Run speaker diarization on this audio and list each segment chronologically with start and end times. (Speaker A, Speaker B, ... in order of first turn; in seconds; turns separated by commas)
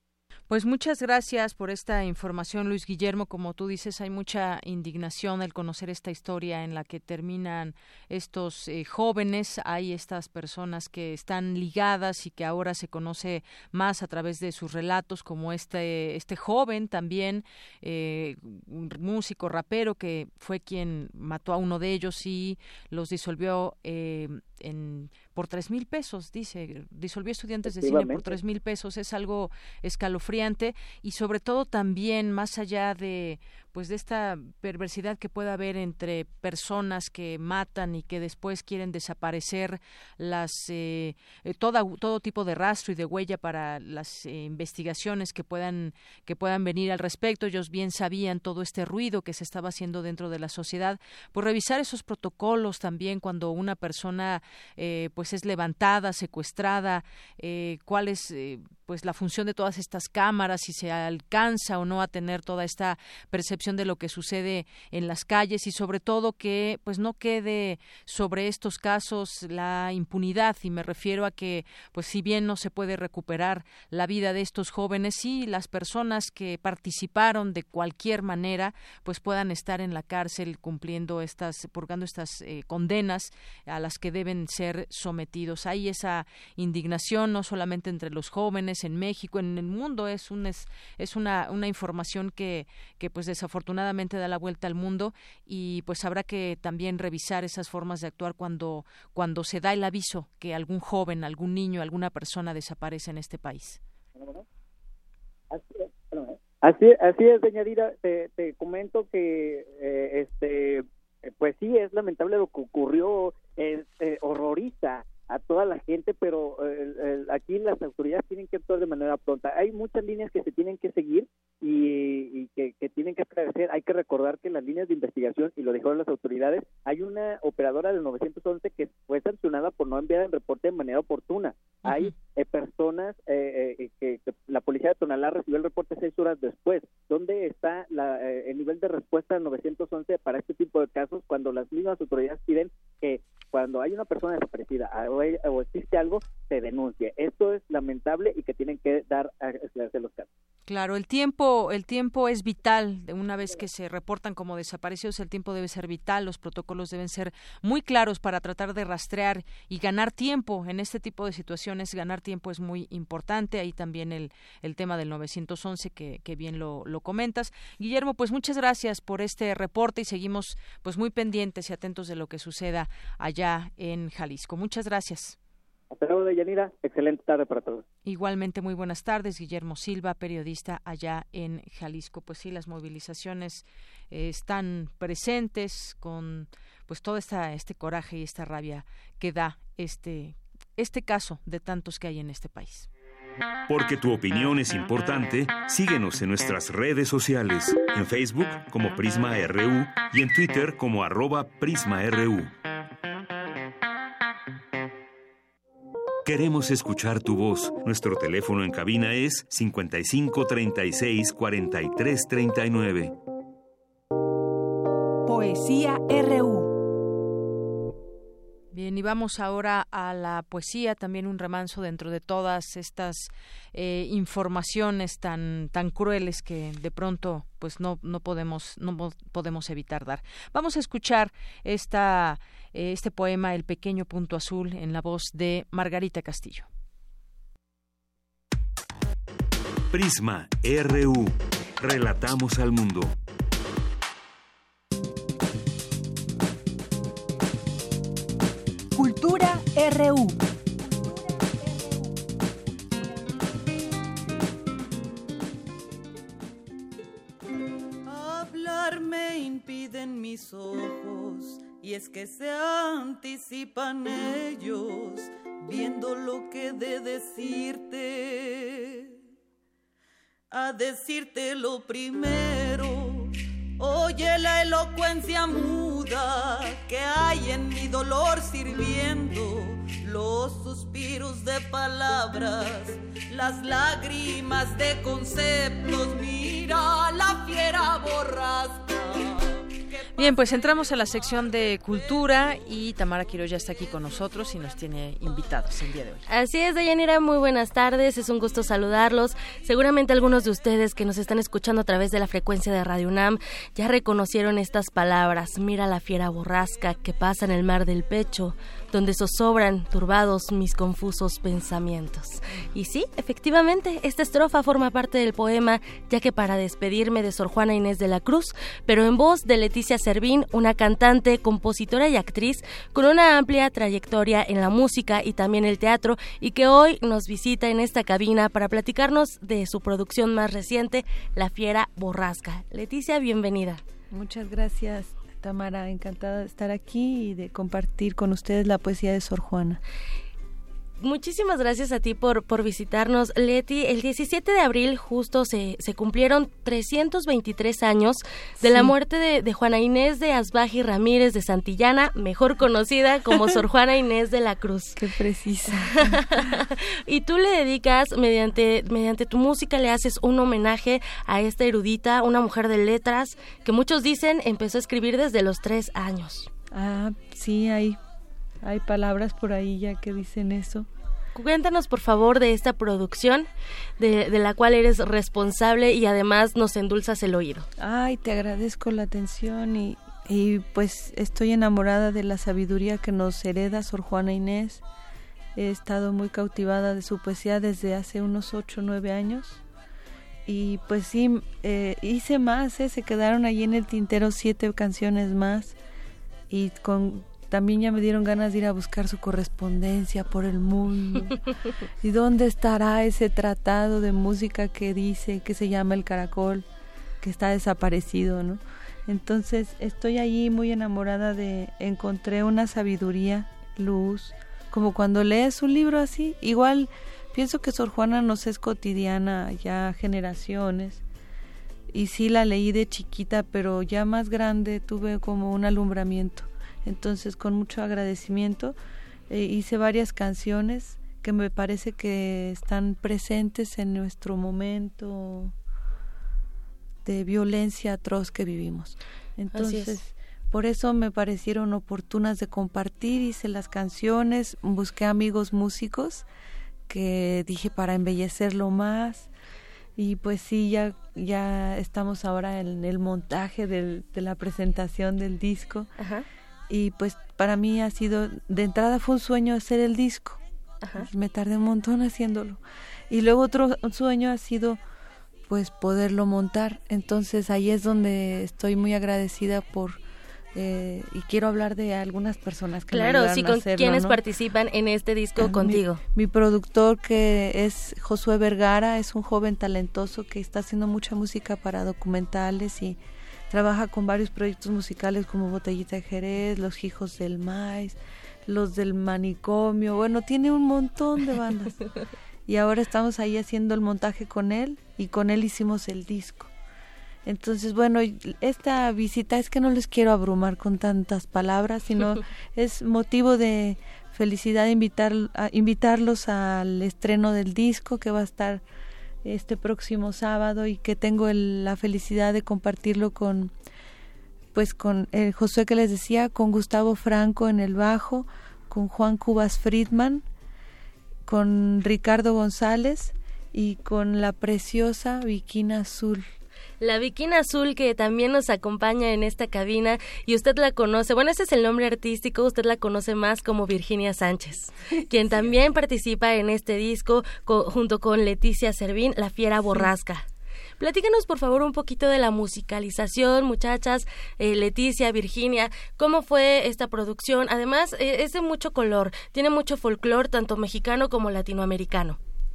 Speaker A: 0.5-103.8, Speaker B: 27.7-28.4, Speaker B: 104.2-104.4, Speaker B: 105.5-150.3, Speaker A: 150.7-175.4, Speaker B: 175.9-177.8, Speaker A: 178.0-192.9, Speaker C: 193.7-202.5, Speaker C: 206.2-213.1, Speaker D: 215.2-216.7, Speaker A: 218.7-236.7, Speaker C: 239.9-243.1, Speaker D: 248.9-250.4, Speaker E: 258.1-269.2, Speaker E: 270.5-289.6, Speaker A: 290.1-296.2, Speaker F: 296.3-333.8, Speaker G: 334.1-339.8, Speaker F: 341.0-355.0, Speaker G: 348.6-348.9, Speaker G: 355.0-356.1, Speaker F: 355.9-366.5, Speaker G: 366.7-368.0, Speaker G: 368.6-370.9, Speaker F: 371.3-373.5, Speaker F: 374.0-377.7, Speaker G: 377.8-384.8, Speaker G: 385.6-389.6, Speaker G: 390.4-395.8, Speaker G: 396.5-401.3, Speaker G: 402.0-406.6, Speaker G: 407.2-421.0, Speaker G: 421.9-428.8, Speaker G: 429.3-435.5, Speaker G: 437.1-446.2, Speaker F: 439.5-440.0, Speaker G: 446.9-449.3, Speaker G: 450.0-455.9, Speaker F: 456.0-456.2, Speaker G: 456.7-460.4, Speaker G: 460.9-464.8, Speaker G: 465.5-470.0, Speaker G: 470.5-474.2, Speaker F: 472.9-476.0, Speaker G: 475.4-483.0, Speaker G: 483.5-491.8, Speaker G: 492.5-496.5, Speaker G: 497.2-508.6, Speaker G: 509.2-513.5, Speaker G: 514.5-520.2, Speaker G: 521.3-526.2, Speaker F: 526.8-540.2, Speaker F: 540.8-552.2